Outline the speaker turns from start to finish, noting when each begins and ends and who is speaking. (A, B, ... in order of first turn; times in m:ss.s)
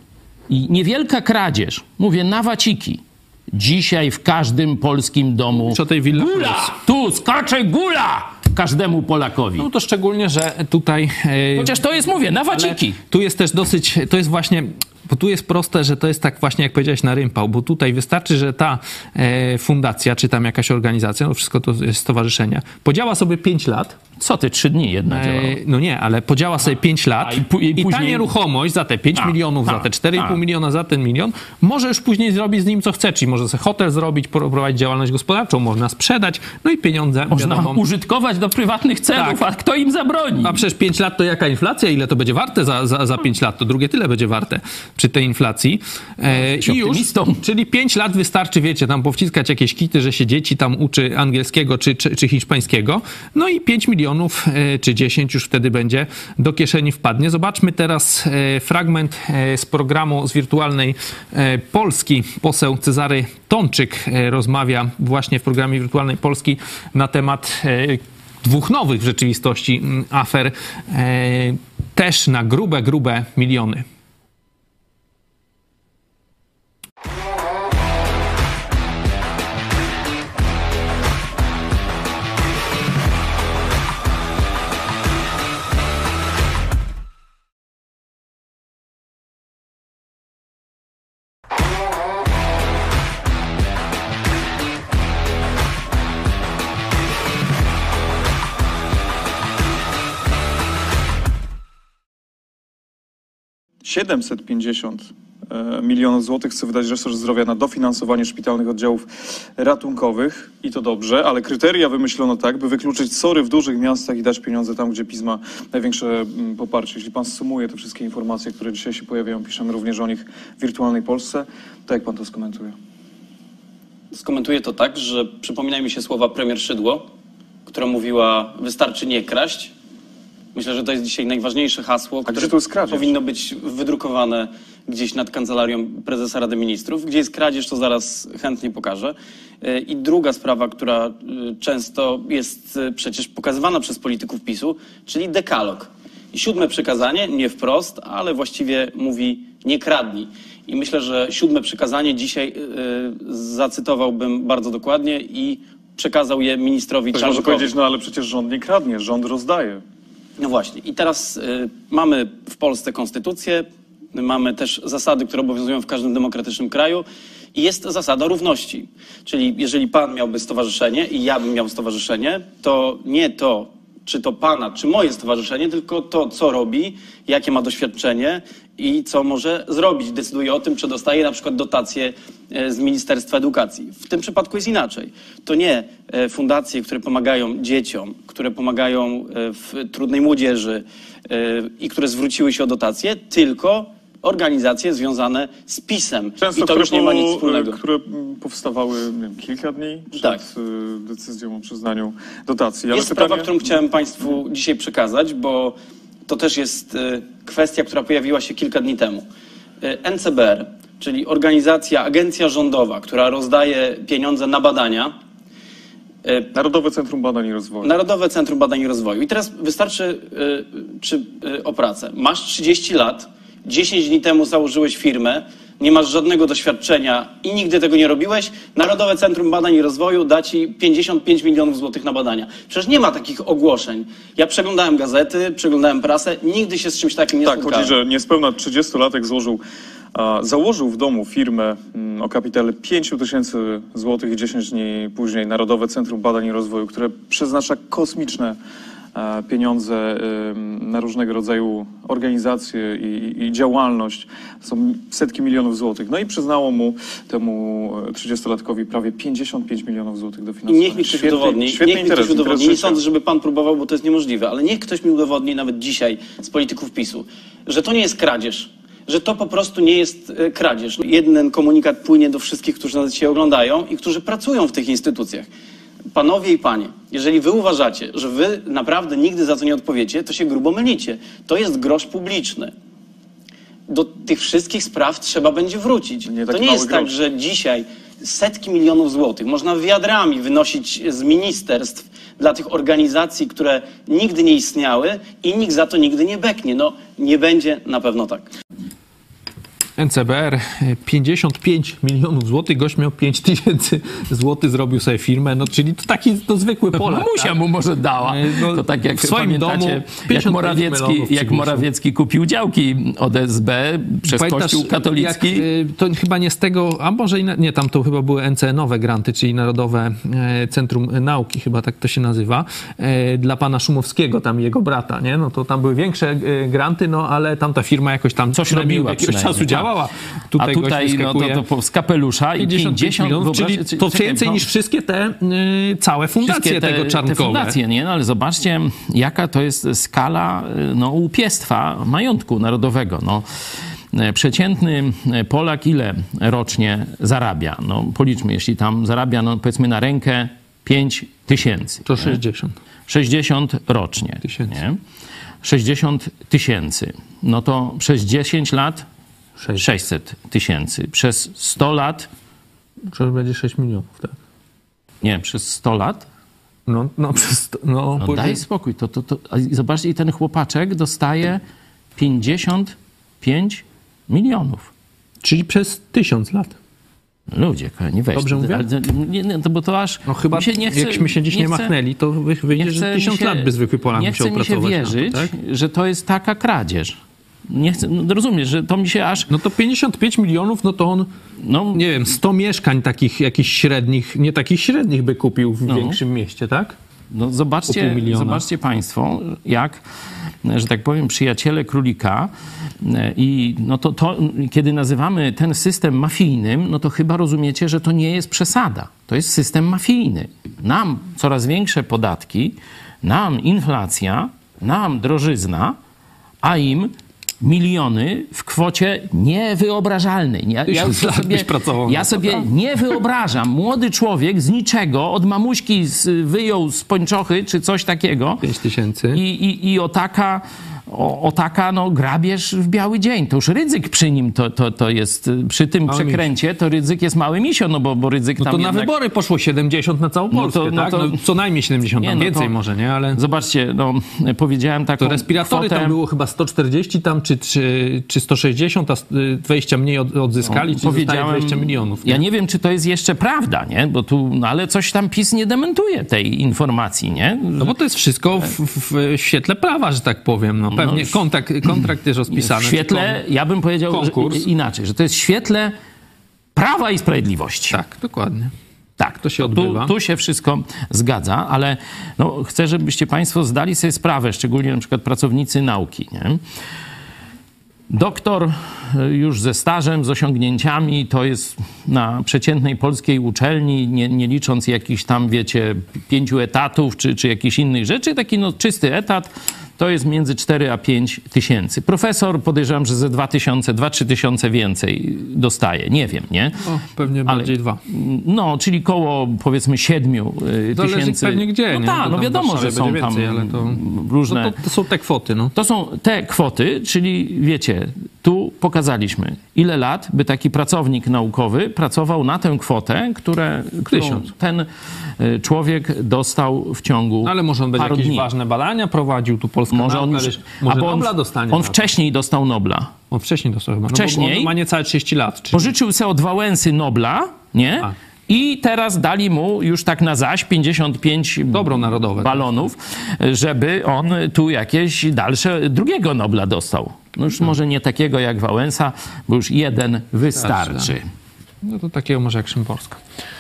0:00.5-0:09.7 A
0:05.7-0:06.8 B
0:09.6-0:11.8 B
0:11.6-0:13.0 A
0:12.5-0:24.0 B
0:24.2-0:25.6 A
0:25.1-0:37.8 B
0:27.2-0:28.3 A
0:29.1-0:30.4 A
0:37.3-0:40.6 A
0:39.1-0:39.4 B
0:40.4-1:13.8 B
0:46.3-0:47.4 A
1:43.8-2:02.8 C
2:04.1-2:07.1 D
2:07.7-2:09.7 D
2:10.6-2:37.7 D
2:12.3-2:13.2 C
2:37.1-2:39.8 C
2:40.4-3:17.8 D
3:16.4-3:23.5 C
3:22.9-3:29.3 D
3:29.8-3:35.1 D
3:36.2-3:36.5 D
3:36.5-3:37.9 C
3:37.8-3:58.0 D
3:57.4-3:59.6 C
4:00.2-4:08.6 C
4:09.2-4:23.0 C
4:20.7-4:35.5 D
4:36.2-4:42.7 D
4:43.9-4:58.5 D
4:46.3-4:47.1 C
5:00.0-5:07.6 B
5:06.9-5:15.7 A
5:08.2-5:11.9 B
5:14.3-5:31.6 B
5:28.5-5:29.9 A
5:30.6-5:34.6 A
5:32.6-5:37.8 B
5:36.4-5:43.4 A
5:44.1-5:52.4 A
5:52.0-5:52.8 B
5:53.1-5:55.0 A
5:54.4-5:54.7 B
5:55.6-5:59.1 A
5:59.6-5:59.9 B
5:59.8-6:02.3 A
6:03.1-6:04.4 B
6:05.2-6:06.3 A
6:06.9-6:08.6 B
6:08.2-6:11.6 A
6:12.2-6:14.9 A
6:15.4-6:16.8 B
6:17.5-6:21.9 A
6:18.3-6:18.9 B
6:20.3-6:25.5 B
6:22.8-6:29.5 A
6:29.5-6:31.3 B
6:31.6-6:32.4 A
6:31.9-6:37.0 B
6:35.9-6:36.2 A
6:37.3-6:40.0 A
6:37.9-6:38.6 B
6:40.6-6:56.0 A
6:56.6-7:08.6 A
7:00.9-7:02.7 B
7:08.6-7:09.4 B
7:09.3-7:19.1 A
7:16.1-7:16.5 B
7:18.6-7:23.4 B
7:20.5-7:21.4 A
7:22.2-7:22.8 A
7:23.3-7:26.2 A
7:25.2-7:32.4 B
7:30.6-7:38.0 A
7:37.8-7:43.4 B
7:40.9-7:46.0 A
7:44.1-7:44.7 B
7:46.8-7:48.0 A
7:47.9-7:48.7 B
7:49.2-7:56.6 A
7:49.4-7:50.1 B
7:58.1-8:24.8 A
8:16.8-8:18.0 B
8:21.0-8:25.7 B
8:25.8-8:38.5 A
8:34.1-8:34.5 B
8:37.4-8:42.0 B
8:39.9-8:43.2 A
8:43.3-8:45.9 B
8:44.1-8:44.7 A
8:45.7-9:01.2 A
8:51.7-8:52.9 B
9:00.6-9:01.1 B
9:01.8-9:03.2 B